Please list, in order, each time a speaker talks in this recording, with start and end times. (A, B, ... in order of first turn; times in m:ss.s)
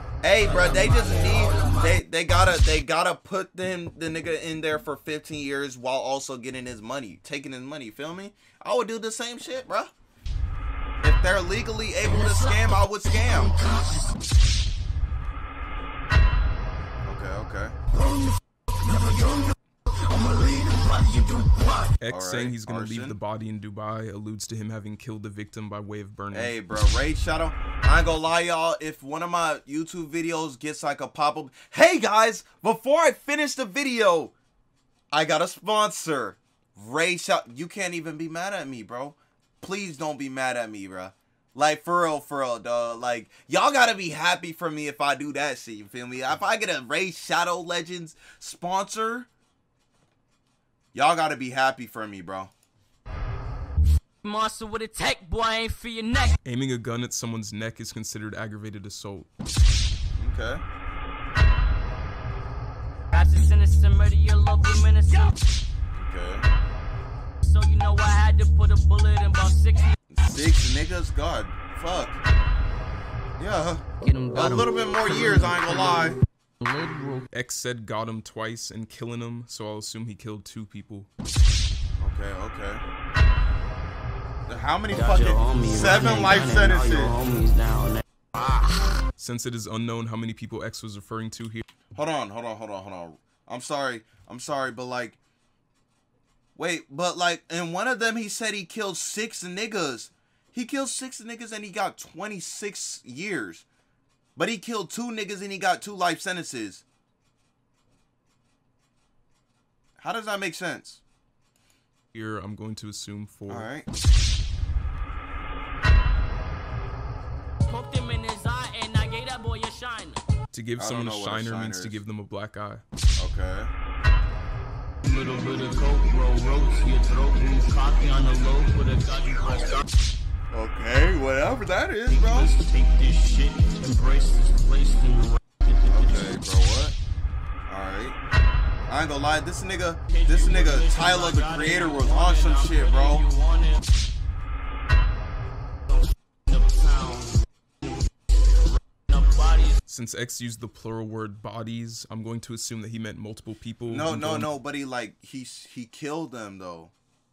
0:00.2-0:09.9 A
0:00.4-0:02.0 B
0:11.0-0:13.5 A
0:12.1-0:14.1 B
0:17.0-0:17.8 A
0:17.9-0:21.9 B
0:22.0-0:26.5 C
0:22.1-0:23.2 A
0:26.3-0:34.3 A
0:35.1-0:49.3 A
0:50.9-0:52.5 A
0:54.2-0:56.4 B
0:56.4-0:59.3 C
1:00.2-1:00.6 A
1:03.1-1:05.3 B
1:05.9-1:06.5 A
1:07.4-1:09.9 B
1:10.1-1:12.2 A
1:13.4-1:16.2 A
1:14.0-1:15.8 B
1:16.6-1:17.2 B
1:17.3-1:21.1 C
1:22.0-1:22.8 A
1:24.5-1:27.2 A
1:24.9-1:28.8 B
1:29.2-1:31.6 C
1:31.9-1:35.2 A
1:36.6-1:43.6 A
1:44.4-1:46.8 A
1:50.0-1:51.0 A
1:52.1-1:53.7 C
1:53.5-1:53.9 A
1:57.7-2:00.2 B
2:00.5-2:02.8 C
2:00.8-2:02.0 A
2:03.2-2:03.7 A
2:05.0-2:09.8 B
2:10.5-2:12.5 A
2:12.1-2:16.3 B
2:15.9-2:17.0 A
2:17.7-2:18.2 A
2:18.9-2:23.2 A
2:20.1-2:23.8 B
2:26.5-2:27.4 B
2:29.0-2:29.8 B
2:29.9-2:34.5 C
2:33.9-2:36.9 A